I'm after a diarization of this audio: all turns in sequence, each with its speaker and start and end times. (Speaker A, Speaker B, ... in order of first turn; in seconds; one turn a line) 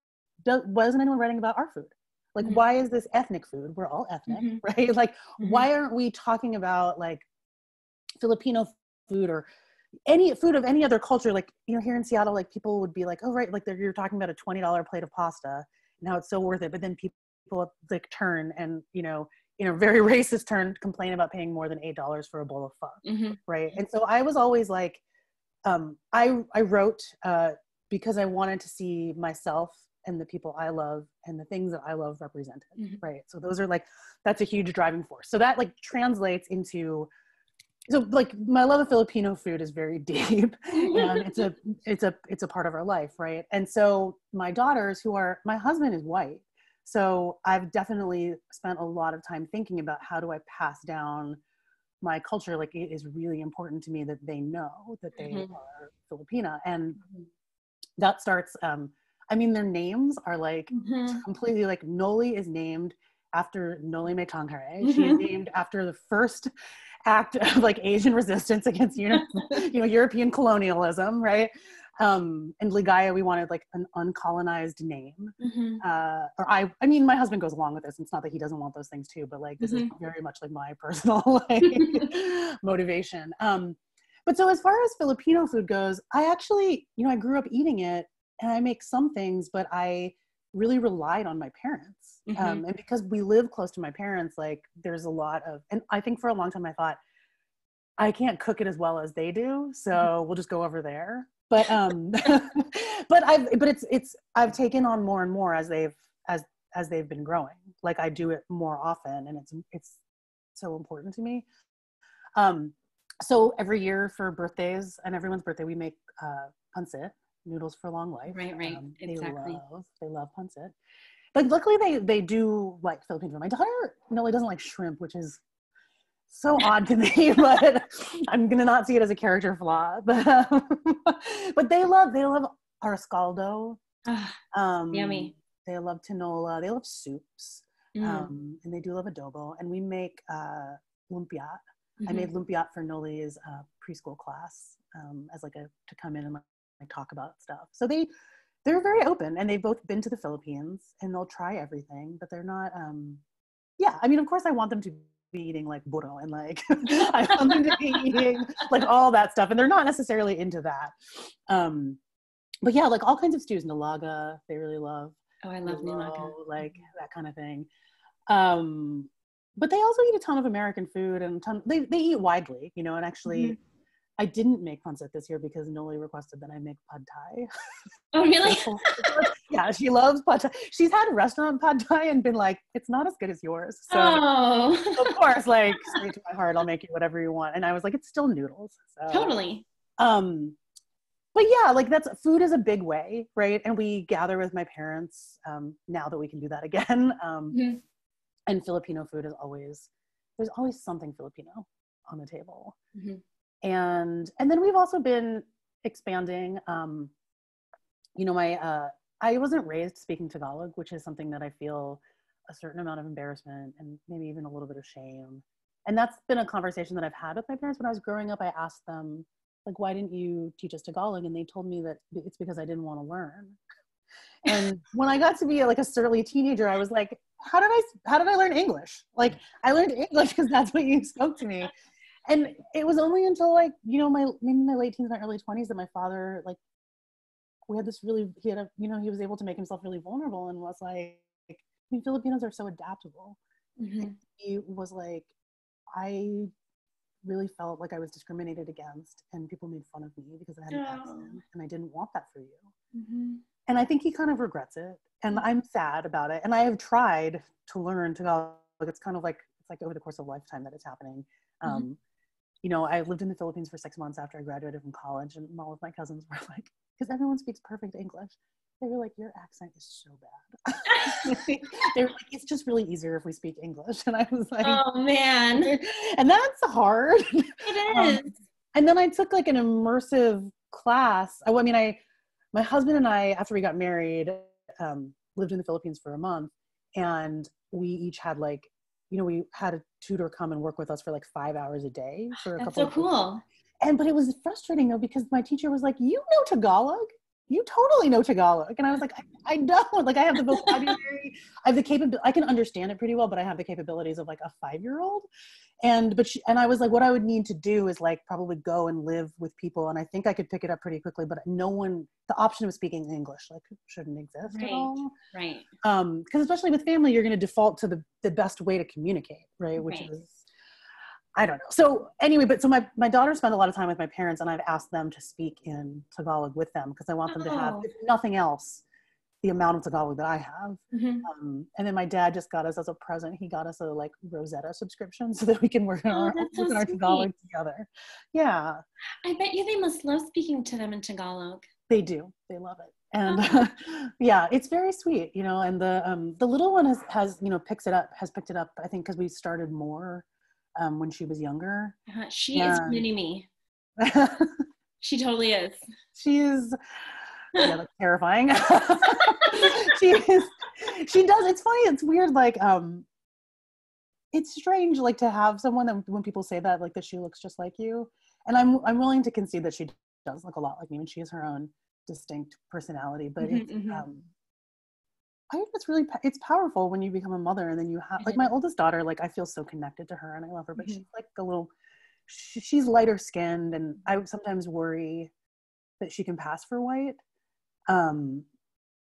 Speaker A: 0.4-7.3
Speaker B: 4.3-4.6
Speaker B: 5.4-5.6
Speaker A: 8.2-9.4
Speaker A: 10.1-25.0
Speaker B: 23.0-23.4
Speaker A: 25.6-37.1
Speaker B: 32.8-33.0
Speaker A: 37.9-51.4
Speaker B: 40.7-41.5
Speaker A: 52.0-57.0
Speaker B: 55.2-55.5
Speaker A: 58.0-66.5
Speaker B: 60.7-61.2
Speaker B: 64.8-65.2
Speaker A: 67.0-97.0
Speaker B: 69.2-69.5
Speaker B: 75.4-75.8
Speaker B: 79.6-79.9
Speaker B: 92.3-92.6
Speaker A: 98.0-110.0
Speaker A: 110.5-111.5
Speaker A: 112.3-120.7
Speaker B: 118.3-119.6
Speaker A: 121.3-125.4
Speaker A: 126.3-133.8
Speaker B: 134.1-134.4
Speaker A: 134.5-148.1
Speaker B: 134.9-135.3
Speaker B: 137.9-138.3
Speaker B: 142.0-142.3
Speaker A: 148.6-153.2
Speaker A: 153.8-162.0
Speaker B: 157.0-158.7
Speaker A: 162.6-167.7
Speaker B: 165.4-166.8
Speaker A: 168.3-173.6
Speaker B: 173.2-173.6
Speaker A: 174.2-177.5
Speaker B: 178.1-179.3
Speaker A: 178.4-184.2
Speaker B: 183.9-185.1
Speaker A: 184.9-189.3
Speaker B: 189.1-189.6
Speaker A: 190.0-190.6
Speaker A: 191.3-197.6
Speaker B: 197.5-197.8
Speaker A: 198.5-202.8
Speaker B: 202.9-203.2
Speaker A: 203.6-207.1
Speaker A: 208.2-223.6
Speaker A: 224.4-231.7
Speaker A: 232.3-236.6
Speaker A: 237.7-243.4
Speaker B: 243.8-244.2
Speaker A: 244.0-245.3
Speaker A: 245.9-246.5
Speaker A: 247.2-252.7
Speaker B: 250.7-251.4
Speaker B: 252.9-253.4
Speaker A: 253.7-262.0
Speaker A: 262.6-274.8
Speaker B: 270.9-271.4
Speaker B: 274.6-275.7
Speaker A: 275.6-278.2
Speaker B: 277.6-278.3
Speaker A: 278.7-282.0
Speaker A: 282.5-293.1
Speaker B: 292.6-293.4
Speaker A: 293.8-305.2
Speaker B: 300.4-300.9
Speaker A: 305.8-315.1
Speaker B: 314.5-315.7
Speaker A: 315.8-320.4
Speaker B: 319.8-320.1
Speaker A: 321.3-328.8
Speaker B: 327.3-327.9
Speaker A: 329.4-338.8
Speaker B: 330.9-331.3
Speaker B: 336.1-337.3
Speaker B: 339.2-341.7
Speaker A: 341.9-350.2
Speaker B: 343.2-343.6
Speaker A: 350.8-351.9
Speaker B: 352.1-353.5
Speaker A: 352.5-353.0
Speaker A: 354.0-354.6
Speaker B: 355.0-355.8
Speaker A: 356.1-356.8
Speaker A: 357.6-363.1
Speaker B: 359.1-359.9
Speaker A: 364.3-374.2
Speaker B: 373.4-374.0
Speaker A: 375.5-381.7
Speaker B: 378.2-378.5
Speaker B: 380.8-381.0
Speaker A: 382.3-385.3
Speaker A: 386.0-387.2
Speaker A: 387.9-388.4